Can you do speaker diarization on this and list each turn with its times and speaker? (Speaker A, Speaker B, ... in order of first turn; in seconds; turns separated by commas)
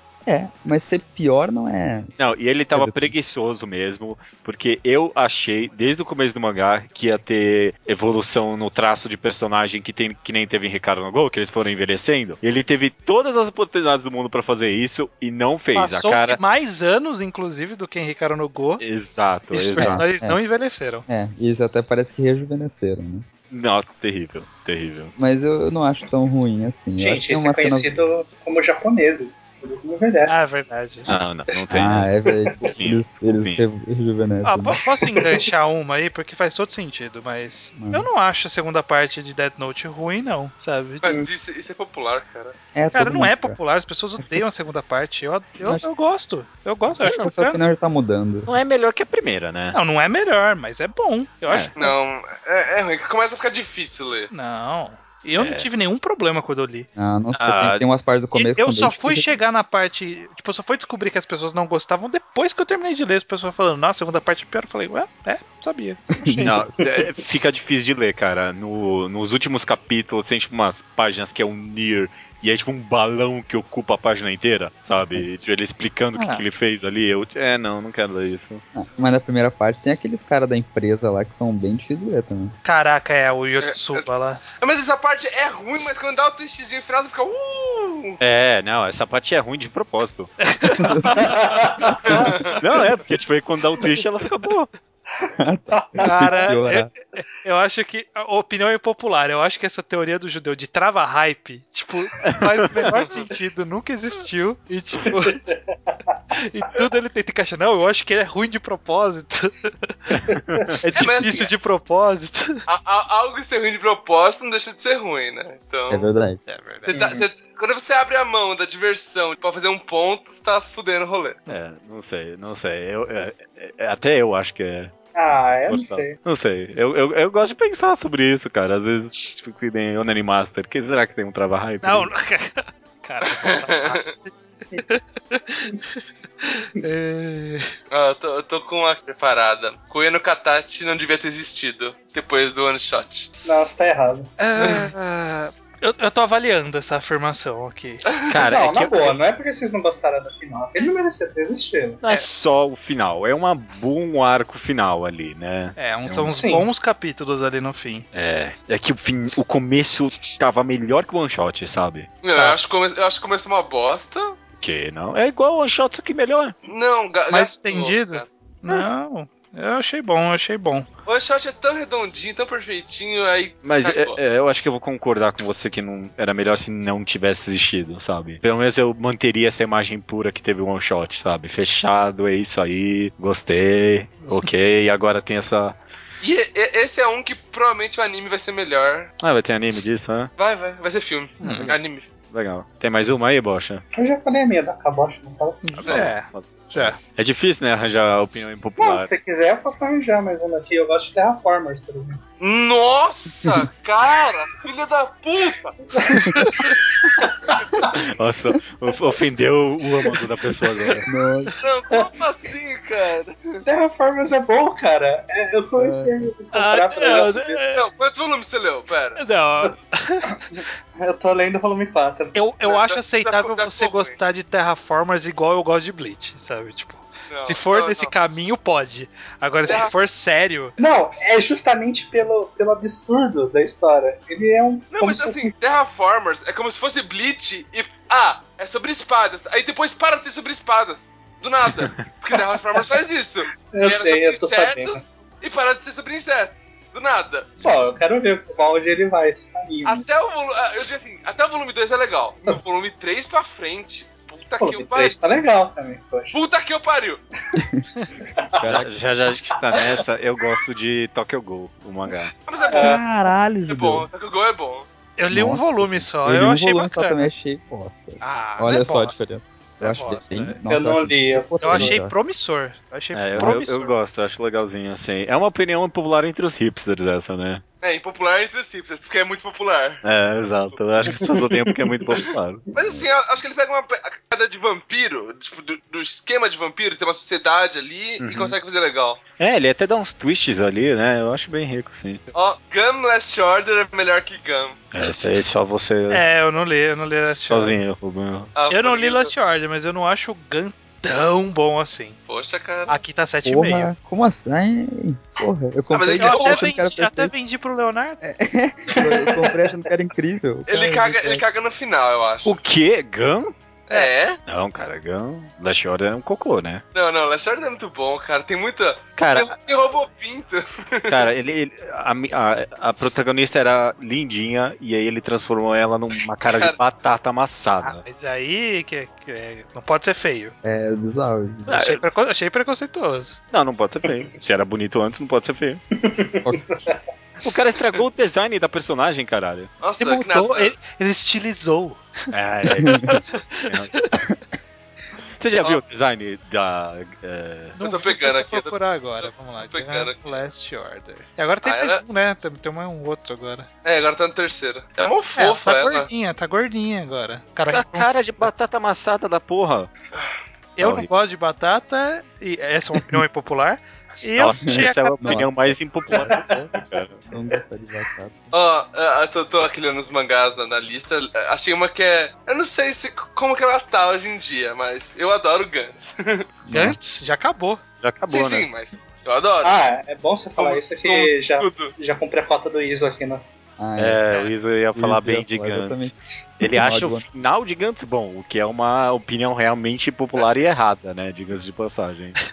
Speaker A: 0.2-2.1, Speaker B: 2.2-16.4, Speaker A: 2.7-3.1, Speaker C: 15.7-18.8, Speaker B: 18.8-20.1, Speaker C: 19.5-21.1, Speaker A: 19.8-20.4, Speaker A: 21.1-23.2, Speaker B: 23.5-25.2, Speaker A: 25.2-27.9, Speaker D: 27.0-30.4, Speaker C: 30.2-31.1, Speaker B: 31.1-33.6, Speaker A: 31.7-34.8, Speaker C: 34.4-41.0, Speaker D: 34.9-35.5, Speaker A: 37.8-38.1, Speaker E: 41.0-42.6, Speaker A: 42.7-43.6, Speaker C: 42.9-47.6, Speaker B: 47.0-47.3, Speaker A: 47.0-48.5, Speaker B: 48.5-49.8, Speaker C: 49.7-51.9, Speaker B: 51.5-51.7, Speaker E: 51.8-54.3, Speaker C: 54.3-56.9, Speaker B: 55.4-55.7, Speaker A: 57.0-59.3, Speaker B: 57.3-57.8, Speaker C: 58.4-66.7, Speaker A: 66.2-66.7, Speaker B: 66.4-78.6, Speaker A: 75.1-75.4, Speaker A: 78.7-82.5, Speaker C: 82.6-84.4, Speaker E: 83.6-88.2, Speaker B: 88.2-90.3, Speaker C: 90.4-91.3, Speaker A: 90.8-91.3, Speaker D: 91.1-92.6, Speaker E: 92.1-92.5, Speaker B: 92.5-94.7, Speaker A: 95.4-96.9, Speaker D: 95.7-96.5, Speaker C: 96.0-105.5, Speaker B: 102.2-102.7, Speaker D: 105.3-106.2, Speaker C: 106.3-110.2, Speaker B: 110.1-111.2, Speaker C: 110.9-112.6, Speaker E: 110.9-111.5, Speaker E: 112.7-116.1, Speaker A: 115.9-116.4, Speaker C: 116.5-116.9, Speaker E: 116.9-121.4, Speaker D: 116.9-117.2, Speaker B: 121.5-124.9, Speaker D: 125.1-126.2, Speaker B: 125.7-132.1, Speaker C: 131.8-137.7, Speaker E: 133.2-134.1, Speaker E: 137.9-143.3, Speaker D: 143.4-144.3, Speaker C: 144.4-148.1, Speaker E: 144.6-144.9, Speaker B: 148.3-149.2, Speaker D: 148.3-152.0, Speaker B: 152.0-156.3, Speaker C: 155.8-158.1, Speaker D: 156.3-156.7, Speaker B: 158.1-162.1, Speaker E: 162.2-164.3, Speaker C: 162.3-162.6, Speaker B: 164.6-166.6, Speaker E: 166.7-168.2, Speaker C: 167.3-170.9, Speaker E: 171.1-174.2, Speaker B: 173.6-185.8, Speaker E: 186.2-189.1, Speaker B: 189.2-190.3, Speaker E: 190.4-192.1, Speaker C: 191.4-191.7, Speaker B: 192.3-193.8, Speaker D: 193.9-196.1, Speaker C: 195.6-197.0, Speaker B: 195.8-199.1, Speaker D: 198.8-202.2, Speaker E: 202.4-205.8, Speaker D: 206.0-207.9, Speaker C: 206.4-206.7, Speaker B: 207.9-211.1, Speaker A: 211.1-211.5, Speaker E: 211.6-213.6, Speaker D: 213.6-217.6, Speaker A: 215.8-216.3, Speaker C: 216.5-217.8, Speaker E: 217.7-219.2, Speaker C: 219.2-220.4, Speaker D: 220.5-222.4, Speaker C: 222.3-230.8, Speaker E: 222.7-224.2, Speaker E: 227.3-228.1, Speaker D: 230.8-235.5, Speaker E: 234.9-247.5, Speaker D: 242.3-242.8, Speaker D: 243.7-245.0, Speaker D: 247.6-250.1, Speaker E: 249.8-255.2, Speaker D: 254.6-256.4, Speaker E: 256.3-257.2, Speaker A: 257.6-257.8, Speaker D: 258.4-258.7, Speaker A: 258.6-258.9, Speaker B: 258.6-262.3, Speaker E: 262.5-263.0, Speaker D: 262.6-263.0, Speaker A: 262.7-264.1, Speaker E: 263.7-264.9, Speaker C: 265.2-267.3, Speaker A: 265.3-272.1, Speaker C: 268.2-269.2, Speaker C: 269.8-270.6, Speaker D: 270.7-272.0, Speaker C: 271.6-274.0, Speaker B: 273.1-277.6, Speaker A: 273.4-273.7, Speaker E: 277.8-280.0, Speaker B: 280.0-282.6, Speaker E: 282.7-289.2, Speaker B: 288.2-288.6, Speaker B: 289.4-292.2, Speaker E: 292.3-294.8, Speaker B: 294.9-296.2, Speaker C: 296.1-297.8, Speaker B: 297.2-298.5, Speaker E: 298.6-299.3, Speaker C: 298.7-302.2, Speaker E: 302.3-303.0, Speaker C: 302.9-303.9, Speaker A: 303.4-307.3, Speaker E: 305.9-306.7, Speaker C: 306.1-308.2, Speaker A: 308.2-311.4, Speaker D: 308.9-309.8, Speaker E: 310.7-312.6, Speaker B: 312.4-313.5, Speaker E: 313.9-314.4, Speaker B: 314.5-316.8, Speaker E: 316.9-321.1, Speaker B: 319.2-319.5, Speaker B: 321.1-328.0, Speaker E: 326.4-326.8, Speaker C: 327.8-330.5, Speaker A: 330.6-331.8, Speaker B: 331.7-332.1, Speaker C: 331.7-333.4, Speaker B: 333.5-335.8, Speaker D: 336.0-337.0, Speaker A: 336.4-336.7, Speaker B: 337.4-339.7, Speaker E: 339.8-340.8, Speaker C: 340.0-342.1, Speaker B: 342.3-343.9, Speaker A: 342.9-343.1, Speaker C: 343.1-344.1, Speaker B: 345.4-347.8, Speaker C: 347.8-353.7, Speaker E: 347.8-350.4, Speaker E: 351.6-352.0, Speaker E: 353.8-356.1, Speaker C: 355.4-358.5, Speaker B: 357.6-359.9, Speaker C: 360.8-365.5, Speaker B: 360.8-361.1, Speaker B: 364.4-367.2, Speaker A: 364.6-366.3, Speaker D: 366.1-366.6, Speaker A: 367.3-368.5, Speaker E: 368.5-376.4, Speaker A: 376.7-377.0, Speaker C: 376.7-377.8, Speaker B: 378.0-378.7, Speaker E: 378.3-379.7, Speaker D: 379.6-383.4, Speaker E: 380.6-381.9, Speaker A: 383.8-384.2, Speaker B: 384.0-392.4, Speaker A: 384.9-387.2